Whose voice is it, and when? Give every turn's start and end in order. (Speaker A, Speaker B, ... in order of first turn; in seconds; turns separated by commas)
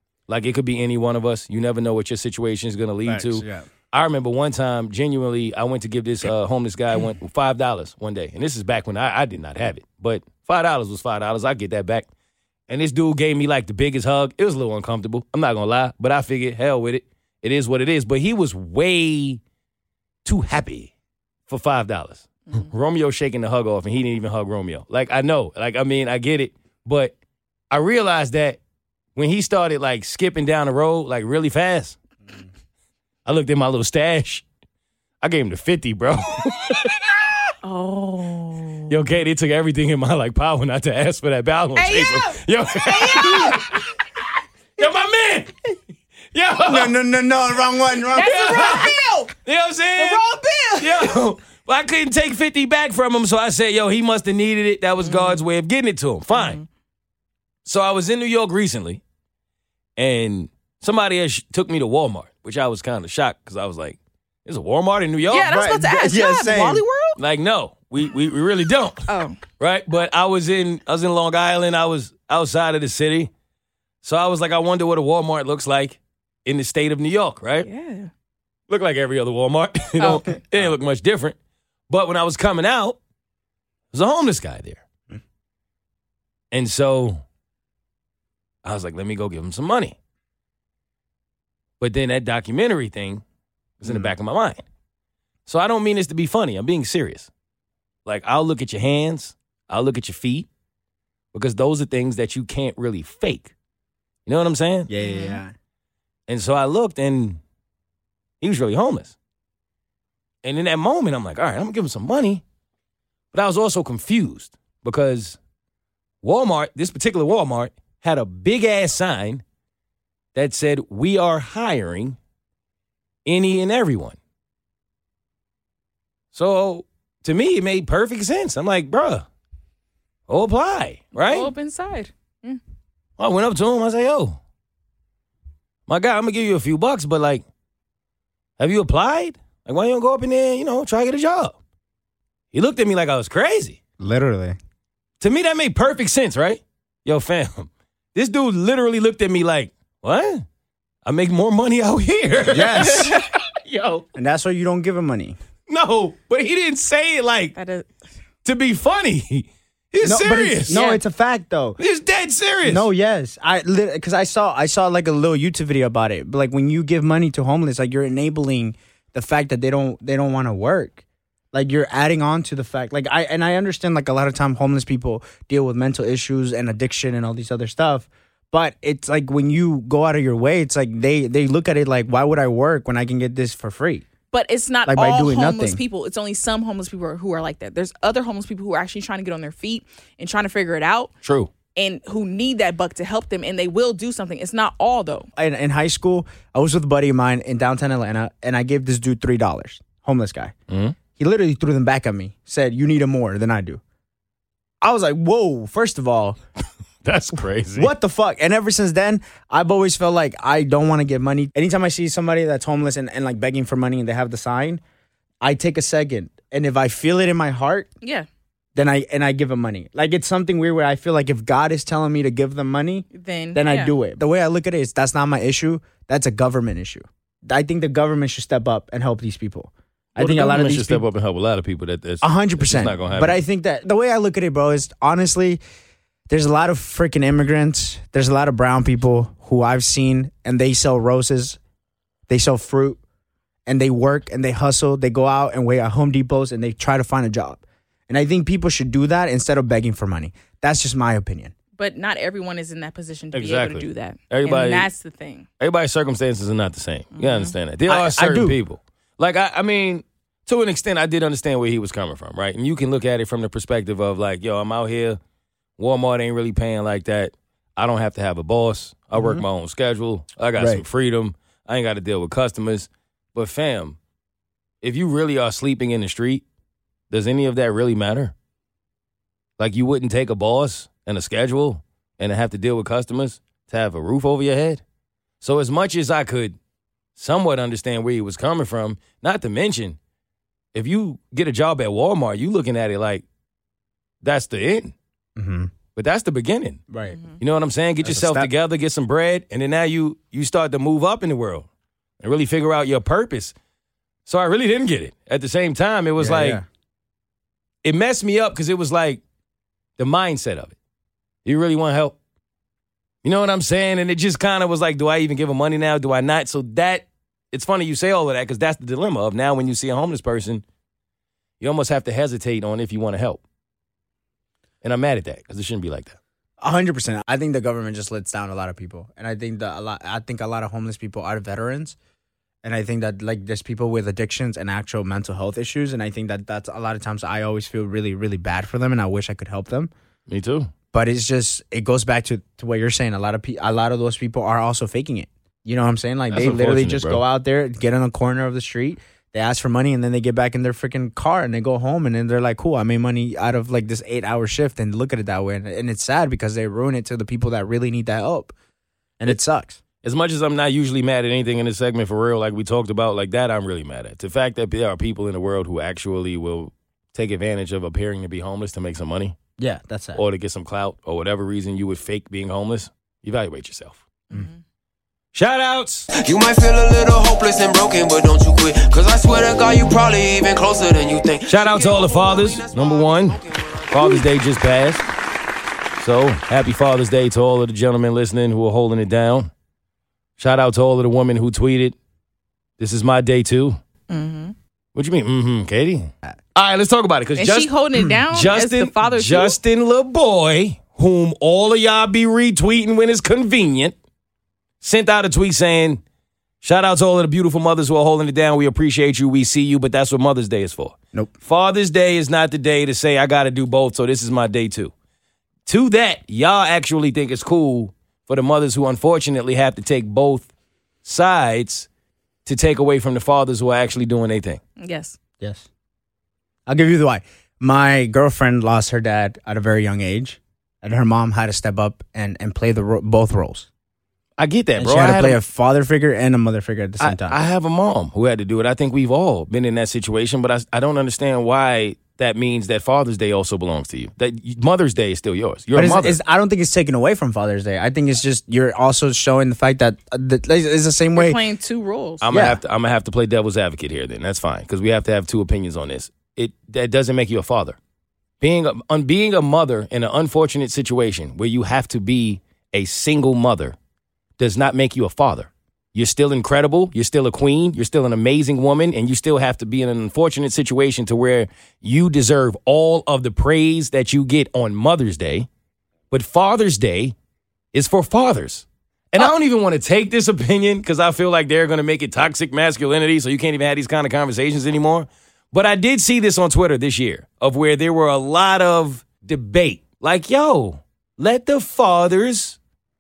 Speaker A: 0.3-12.1, Speaker B: 3.1-3.6, Speaker A: 12.7-19.4, Speaker A: 20.2-20.9, Speaker A: 21.5-27.2, Speaker A: 27.7-28.6, Speaker A: 29.2-32.0, Speaker A: 33.2-34.5, Speaker A: 35.2-37.0, Speaker C: 37.6-38.9, Speaker A: 38.9-43.9, Speaker C: 41.8-43.6, Speaker A: 44.8-45.5, Speaker A: 46.3-47.0, Speaker B: 46.7-48.6, Speaker C: 48.1-49.3, Speaker A: 48.1-50.2, Speaker D: 50.4-50.9, Speaker A: 50.8-56.6, Speaker C: 55.0-55.4, Speaker C: 56.3-56.7, Speaker A: 57.6-59.0, Speaker A: 60.0-65.5, Speaker C: 65.3-67.2, Speaker B: 65.5-66.8, Speaker A: 67.2-69.1, Speaker C: 69.1-69.4, Speaker A: 69.6-73.3, Speaker A: 74.0-77.7, Speaker C: 77.7-78.1, Speaker A: 78.7-81.4, Speaker C: 80.0-80.3, Speaker A: 81.9-83.0, Speaker A: 83.9-84.8, Speaker A: 86.5-87.2, Speaker A: 88.6-90.0, Speaker A: 91.8-93.2, Speaker A: 93.8-94.6, Speaker A: 95.5-97.3, Speaker A: 98.0-100.5, Speaker A: 101.3-103.5, Speaker A: 104.3-104.9, Speaker B: 104.9-105.5, Speaker C: 105.0-105.4, Speaker A: 106.3-107.4, Speaker A: 108.4-109.2, Speaker A: 110.4-112.4, Speaker A: 113.3-115.4, Speaker A: 116.2-119.4, Speaker A: 120.3-122.2, Speaker A: 123.2-124.2, Speaker A: 126.3-129.3, Speaker A: 130.3-131.5, Speaker C: 131.2-132.6, Speaker A: 133.2-134.4, Speaker A: 135.9-137.4, Speaker A: 138.6-141.6, Speaker A: 142.5-143.8, Speaker B: 144.0-144.6, Speaker A: 145.2-150.4, Speaker A: 151.1-154.1, Speaker B: 152.5-153.2, Speaker C: 152.9-153.2, Speaker B: 154.2-155.4, Speaker A: 155.7-157.6, Speaker C: 157.6-157.9, Speaker A: 158.4-160.8, Speaker B: 160.0-161.8, Speaker C: 160.7-161.0, Speaker A: 161.8-162.9, Speaker B: 162.7-171.0, Speaker B: 171.5-184.1, Speaker C: 184.3-191.1, Speaker B: 184.9-185.8, Speaker A: 191.2-191.5, Speaker C: 191.8-195.3, Speaker B: 195.4-200.5, Speaker A: 200.7-201.0, Speaker B: 201.2-203.8, Speaker B: 204.8-206.4, Speaker A: 207.0-207.9, Speaker B: 207.8-214.8, Speaker B: 215.4-217.9, Speaker C: 218.0-218.3, Speaker B: 218.8-231.0, Speaker C: 223.1-223.9, Speaker A: 230.2-233.4, Speaker B: 232.2-235.6, Speaker B: 236.3-241.6, Speaker B: 242.3-243.0, Speaker B: 243.7-251.5, Speaker C: 251.8-255.5, Speaker A: 253.3-254.9, Speaker A: 255.6-265.2, Speaker C: 257.2-257.5, Speaker B: 257.9-258.6, Speaker A: 265.8-274.0, Speaker B: 269.1-269.4, Speaker B: 270.6-270.8, Speaker A: 274.8-276.4, Speaker A: 277.1-278.3, Speaker A: 279.6-284.8, Speaker A: 285.4-286.6, Speaker A: 287.2-290.0, Speaker A: 290.7-293.2, Speaker A: 294.2-294.9, Speaker B: 295.4-295.7, Speaker A: 295.9-296.8, Speaker B: 296.9-297.2, Speaker C: 297.1-297.4, Speaker A: 297.4-301.7, Speaker B: 298.0-298.5, Speaker A: 302.2-303.6, Speaker A: 304.3-306.6, Speaker B: 306.2-306.6, Speaker A: 307.8-309.2, Speaker A: 310.0-310.8, Speaker A: 311.4-312.2, Speaker A: 313.2-320.6, Speaker A: 321.6-323.4, Speaker A: 324.8-326.2, Speaker B: 326.6-332.0, Speaker B: 332.6-339.9, Speaker A: 340.3-340.7, Speaker B: 340.9-358.5, Speaker A: 346.3-347.2, Speaker B: 359.2-359.8, Speaker A: 360.0-369.4, Speaker B: 369.6-370.2, Speaker A: 370.2-374.0, Speaker C: 374.3-374.6, Speaker A: 375.3-376.1, Speaker D: 376.2-384.2, Speaker A: 381.5-385.1, Speaker A: 386.0-389.5, Speaker A: 390.4-392.0, Speaker A: 392.8-393.8, Speaker C: 394.1-394.5, Speaker A: 394.9-397.7, Speaker C: 397.4-399.6, Speaker B: 397.9-398.2, Speaker A: 398.3-404.0, Speaker A: 404.8-406.0, Speaker A: 406.6-414.9, Speaker A: 415.7-420.5, Speaker A: 421.1-421.9, Speaker A: 422.4-424.6, Speaker C: 424.8-425.2, Speaker B: 426.7-433.7, Speaker A: 434.4-435.4, Speaker B: 434.8-437.4, Speaker A: 437.0-446.2, Speaker B: 445.7-451.4, Speaker C: 451.2-452.4, Speaker A: 452.2-457.8, Speaker B: 452.3-452.6, Speaker A: 458.4-463.8, Speaker A: 464.4-475.5, Speaker A: 476.1-477.1, Speaker A: 477.7-492.6